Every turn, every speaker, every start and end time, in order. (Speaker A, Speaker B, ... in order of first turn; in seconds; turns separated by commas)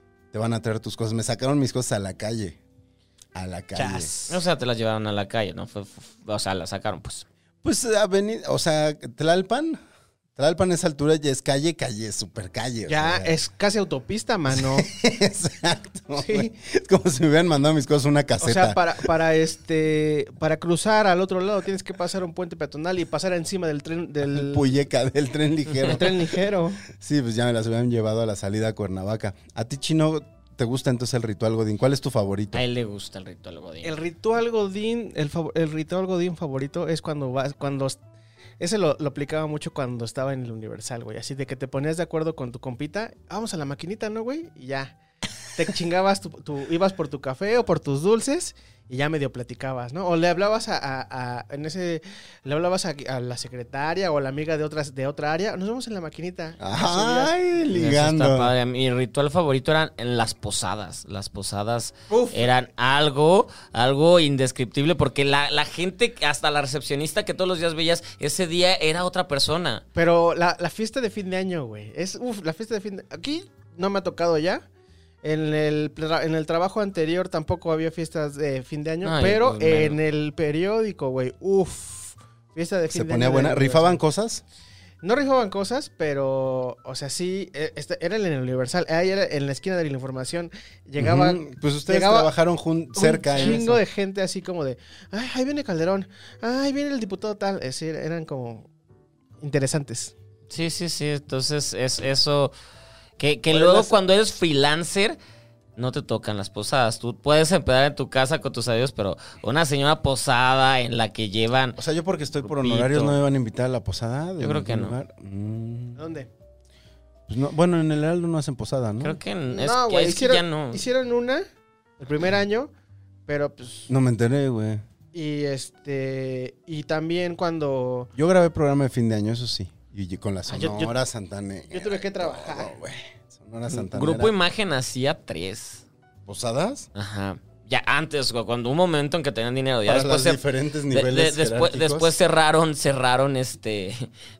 Speaker A: 0.3-2.6, Speaker A: 3.3-4.1, Speaker B: 3.7-4.4, Speaker C: 4.3-7.2, Speaker A: 7.6-9.8, Speaker A: 10.3-13.3, Speaker B: 12.9-14.9, Speaker A: 14.5-18.8, Speaker B: 16.1-16.5, Speaker B: 18.4-24.7, Speaker A: 24.3-32.6, Speaker B: 25.8-26.8, Speaker C: 32.5-33.9, Speaker B: 33.8-38.0, Speaker B: 38.6-44.9, Speaker B: 45.5-57.3, Speaker A: 56.6-58.5, Speaker C: 57.7-69.8, Speaker B: 62.1-62.5, Speaker B: 69.9-74.6, Speaker B: 75.2-84.0, Speaker C: 79.0-80.0, Speaker A: 82.9-84.4, Speaker B: 85.0-92.3, Speaker A: 91.0-93.8, Speaker B: 92.9-98.7, Speaker B: 99.4-100.1, Speaker C: 100.5-102.5, Speaker C: 103.2-105.2, Speaker B: 103.5-103.9, Speaker C: 105.8-111.8, Speaker A: 111.8-116.0, Speaker C: 112.4-113.2, Speaker C: 114.4-115.0, Speaker B: 116.0-116.3, Speaker A: 117.3-119.2, Speaker C: 119.0-120.8, Speaker B: 119.5-121.4, Speaker B: 122.0-122.7, Speaker B: 123.3-123.9, Speaker A: 123.9-124.8, Speaker B: 125.1-128.1, Speaker A: 128.1-134.3, Speaker B: 130.5-130.9, Speaker B: 131.7-132.7, Speaker C: 133.7-135.8, Speaker A: 136.2-136.9, Speaker C: 136.9-144.1, Speaker A: 139.8-142.1